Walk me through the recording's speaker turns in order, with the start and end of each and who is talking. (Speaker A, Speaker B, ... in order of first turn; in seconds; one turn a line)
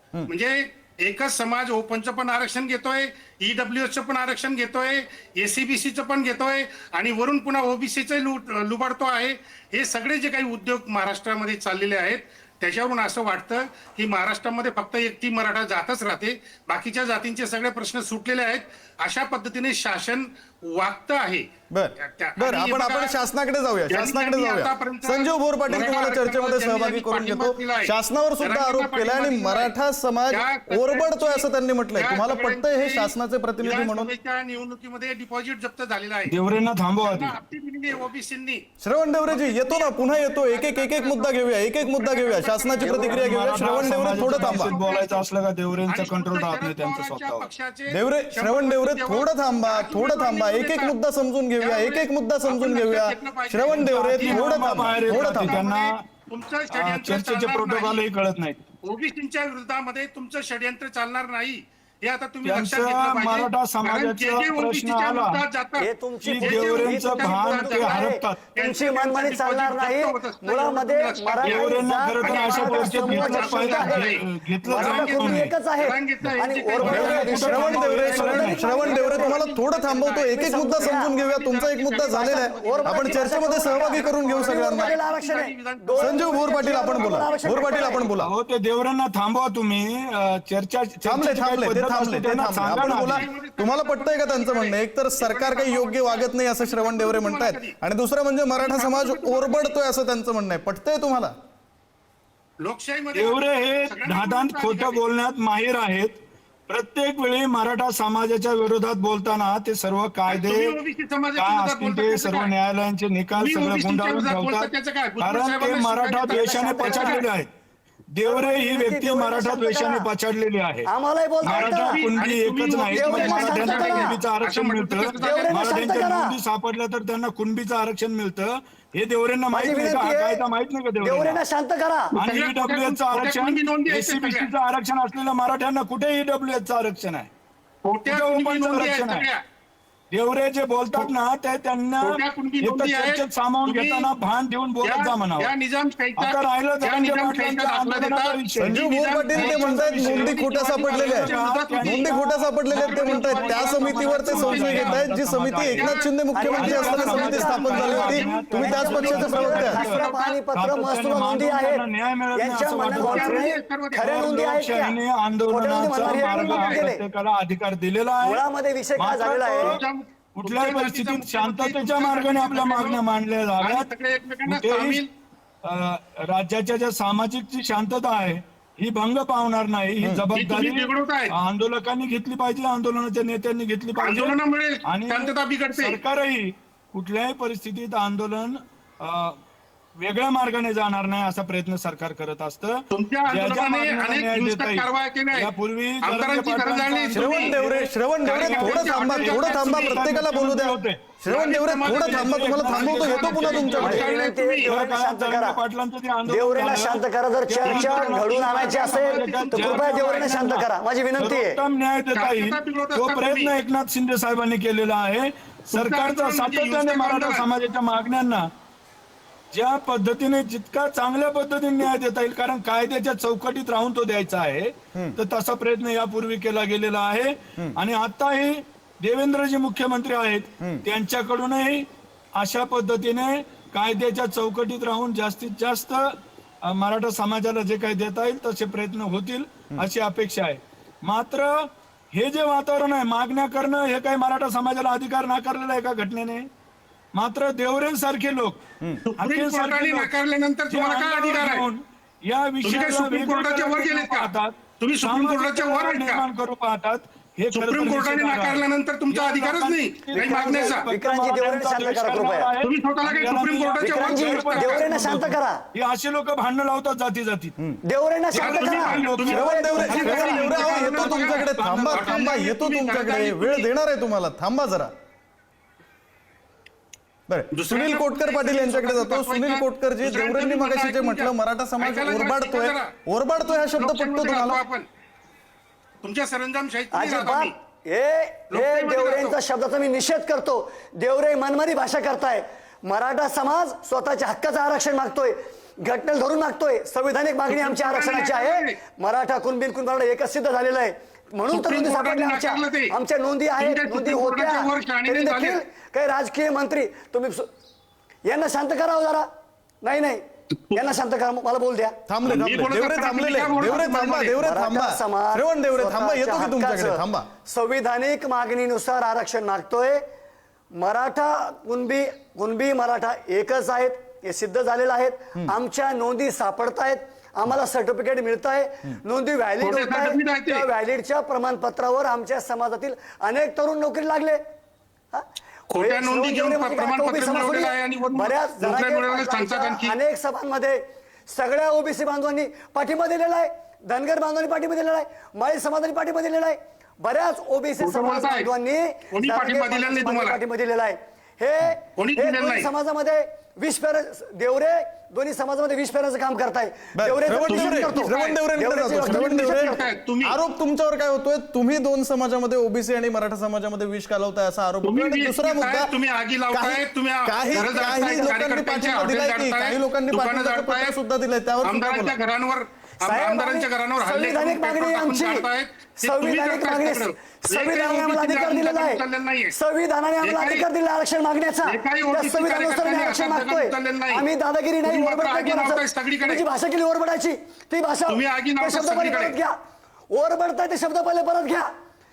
Speaker A: 0.3-21.5
Speaker B: 21.7-34.1
Speaker A: 22.0-23.1
Speaker A: 23.9-29.7
Speaker A: 30.3-36.4
Speaker C: 36.2-37.4
Speaker A: 37.0-38.6
Speaker B: 38.8-44.8
Speaker A: 39.3-45.3
Speaker C: 42.8-47.5
Speaker A: 45.9-50.9
Speaker B: 47.9-55.6
Speaker A: 51.6-58.0
Speaker C: 53.8-56.0
Speaker C: 56.7-58.6
Speaker A: 58.8-71.7
Speaker C: 62.4-65.4
Speaker D: 65.8-74.1
Speaker C: 66.2-68.4
Speaker C: 71.4-75.5
Speaker A: 72.2-88.1
Speaker D: 74.6-79.4
Speaker C: 76.8-78.8
Speaker B: 76.8-85.0
Speaker D: 80.3-81.1
Speaker D: 82.0-88.1
Speaker B: 86.0-88.3
Speaker C: 88.2-93.3
Speaker B: 91.0-101.3
Speaker A: 92.7-97.7
Speaker A: 98.6-99.8
Speaker A: 102.6-105.0
Speaker C: 103.1-110.8
Speaker A: 110.3-112.5
Speaker C: 111.3-117.5
Speaker A: 113.4-117.2
Speaker D: 116.3-117.2
Speaker C: 118.1-120.9
Speaker D: 118.2-120.1
Speaker D: 120.8-122.0
Speaker C: 121.4-131.4
Speaker A: 121.4-125.6
Speaker D: 122.9-124.2
Speaker D: 125.2-126.4
Speaker D: 129.5-130.4
Speaker D: 131.0-132.1
Speaker C: 132.1-137.3
Speaker A: 132.2-134.5
Speaker A: 137.8-139.4
Speaker C: 138.1-139.3
Speaker C: 140.1-145.5
Speaker A: 142.0-144.1
Speaker A: 144.8-152.2
Speaker C: 146.2-148.8
Speaker B: 148.6-159.8
Speaker C: 149.3-156.0
Speaker A: 152.7-155.1
Speaker A: 155.7-160.4
Speaker D: 156.3-161.8
Speaker C: 156.6-168.4
Speaker D: 162.3-165.0
Speaker A: 162.9-164.2
Speaker D: 165.5-167.0
Speaker A: 166.0-166.8
Speaker D: 168.2-169.8
Speaker C: 169.0-169.8
Speaker A: 169.6-173.0
Speaker C: 170.3-173.9
Speaker A: 173.6-175.1
Speaker C: 174.4-175.0
Speaker C: 175.6-189.4
Speaker A: 180.3-181.3
Speaker A: 184.0-186.0
Speaker C: 190.0-201.1
Speaker A: 192.9-197.6
Speaker B: 197.1-204.0
Speaker A: 198.2-200.1
Speaker A: 201.2-204.7
Speaker C: 201.8-204.1
Speaker D: 203.8-205.6
Speaker C: 204.6-218.5
Speaker D: 206.2-211.6
Speaker A: 207.6-210.3
Speaker A: 212.1-213.5
Speaker A: 215.7-217.5
Speaker C: 219.5-236.1
Speaker C: 236.7-246.5
Speaker C: 247.1-248.6
Speaker A: 249.1-251.7
Speaker C: 249.2-250.1
Speaker C: 250.7-267.5
Speaker A: 252.6-256.2
Speaker A: 257.5-260.9
Speaker D: 260.1-262.5
Speaker A: 262.6-264.9
Speaker D: 263.8-265.6
Speaker D: 267.9-270.7
Speaker C: 268.3-272.3
Speaker A: 268.4-273.7
Speaker B: 269.3-274.9
Speaker B: 277.3-284.6
Speaker A: 277.5-282.9
Speaker A: 283.4-284.9
Speaker A: 286.0-287.5
Speaker D: 286.9-307.5
Speaker A: 288.5-289.4
Speaker A: 297.5-298.8
Speaker A: 301.5-302.9
Speaker A: 303.6-305.6
Speaker D: 308.2-309.3
Speaker D: 309.8-310.2
Speaker D: 310.7-312.0
Speaker B: 312.1-317.3
Speaker A: 312.2-314.4
Speaker D: 314.4-320.0
Speaker D: 320.7-334.4
Speaker A: 329.6-330.6
Speaker D: 335.1-359.9
Speaker A: 335.7-340.0
Speaker A: 347.8-348.5
Speaker A: 349.1-350.4
Speaker A: 351.9-352.7
Speaker B: 356.9-365.9
Speaker A: 357.5-358.4
Speaker A: 359.0-360.4
Speaker A: 364.8-371.0
Speaker B: 366.5-372.2
Speaker D: 367.5-368.3
Speaker A: 371.6-379.5
Speaker D: 373.0-375.5
Speaker D: 376.0-389.5
Speaker A: 380.2-380.7
Speaker A: 381.6-384.2
Speaker A: 384.8-386.4
Speaker A: 388.1-389.4
Speaker D: 390.1-391.7